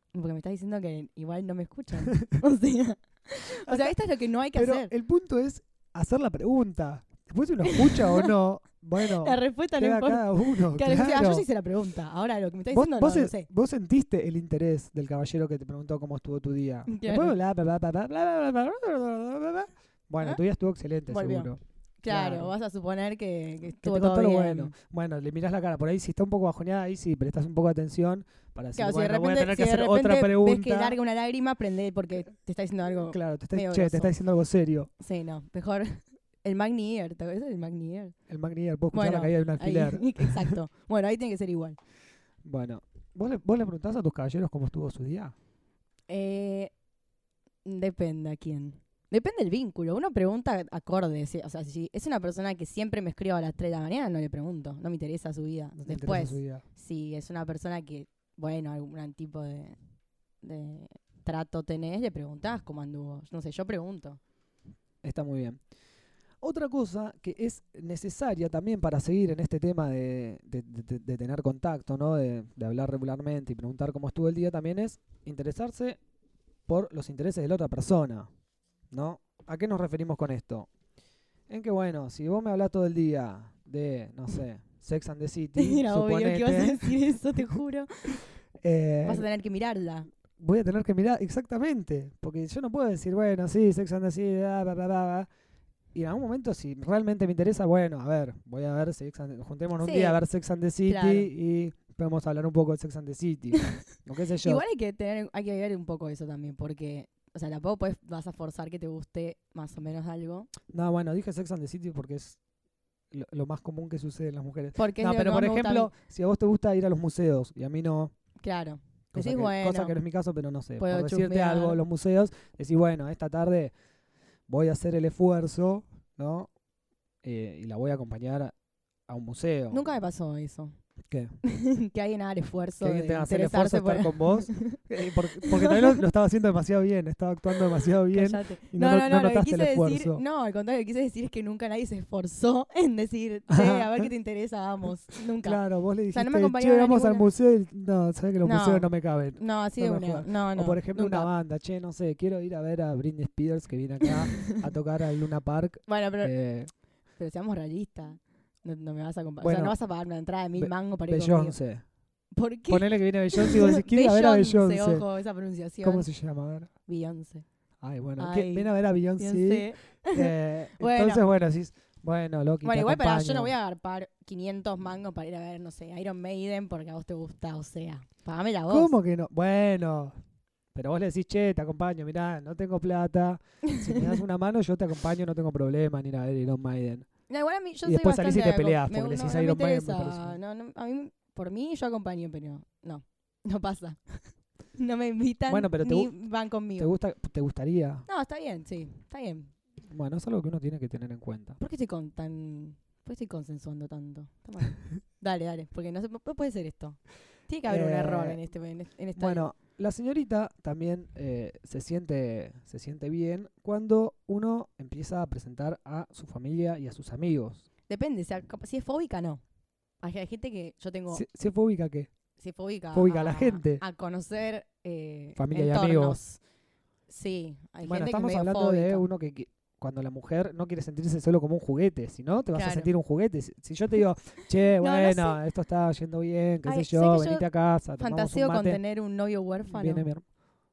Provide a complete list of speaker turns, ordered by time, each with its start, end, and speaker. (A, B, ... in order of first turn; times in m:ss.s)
0:00.1-0:04.9 A
0:03.6-0:04.0 B
0:04.5-0:11.4 B
0:07.6-0:08.3 A
0:09.0-0:13.5 A
0:12.7-0:22.5 B
0:16.9-0:17.3 A
0:21.1-0:21.5 A
0:22.0-0:24.7 A
0:23.8-0:31.0 B
0:28.8-0:34.1 A
0:33.1-0:34.9 B
0:35.0-0:38.1 A
0:38.3-0:40.5 B
0:38.9-0:41.8 A
0:42.4-0:45.3 B
0:46.1-0:46.7 A
0:47.6-0:59.8 A
0:55.8-0:56.6 B
1:00.4-1:04.2 A
1:05.0-1:05.6 B
1:06.4-1:16.0 B
1:16.7-1:18.3 B
1:18.9-1:20.7 B
1:21.5-1:27.0 B
1:25.6-1:28.2 A
1:28.6-1:29.2 B
1:29.0-1:30.1 A
1:30.4-1:35.3 B
1:35.9-1:44.6 B
1:39.8-1:40.2 A
1:40.9-1:41.3 A
1:44.4-1:50.5 A
1:50.7-1:52.4 B
1:53.1-1:58.1 B
1:54.8-1:55.9 A
1:58.4-2:00.0 A
1:59.1-2:03.7 B
2:00.8-2:01.8 A
2:04.5-2:06.5 B
2:07.2-2:08.5 B
2:09.1-2:09.8 B
2:09.7-2:10.7 A
2:11.1-2:11.3 B
2:11.4-2:14.8 A
2:12.8-2:20.2 B
2:15.3-2:16.0 A
2:18.1-2:25.6 A
2:23.5-2:24.1 B
2:25.4-2:36.7 B
2:26.1-2:27.2 A
2:28.4-2:31.3 A
2:34.1-2:34.6 A
2:35.9-2:36.3 A
2:37.2-2:41.6 A
2:39.4-2:39.7 B
2:40.6-2:41.8 B
2:42.3-2:46.1 A
2:42.7-2:45.0 B
2:45.8-2:46.7 B
2:46.9-2:47.4 A
2:47.8-2:53.5 B
2:48.2-2:51.2 A
2:52.6-2:58.9 A
2:58.7-3:00.1 B
3:00.7-3:07.1 B
3:03.6-3:04.0 A
3:07.3-3:14.2 A
3:07.8-3:10.4 B
3:14.8-3:16.9 A
3:15.5-3:16.1 B
3:16.8-3:18.0 B
3:18.1-3:19.5 A
3:19.9-3:21.6 B
3:21.6-3:29.5 A
3:27.6-3:28.4 B
3:29.2-3:37.6 B
3:37.9-3:39.4 A
3:40.0-3:41.2 A
3:41.1-3:42.1 B
3:42.4-3:46.4 A
3:42.9-3:43.8 B
3:45.4-3:46.2 B
3:47.1-3:49.1 A
3:47.8-3:58.8 B
3:52.5-3:52.9 A
3:54.8-3:55.4 A
3:56.6-3:57.4 A
3:58.0-4:00.1 A
3:59.7-4:00.2 B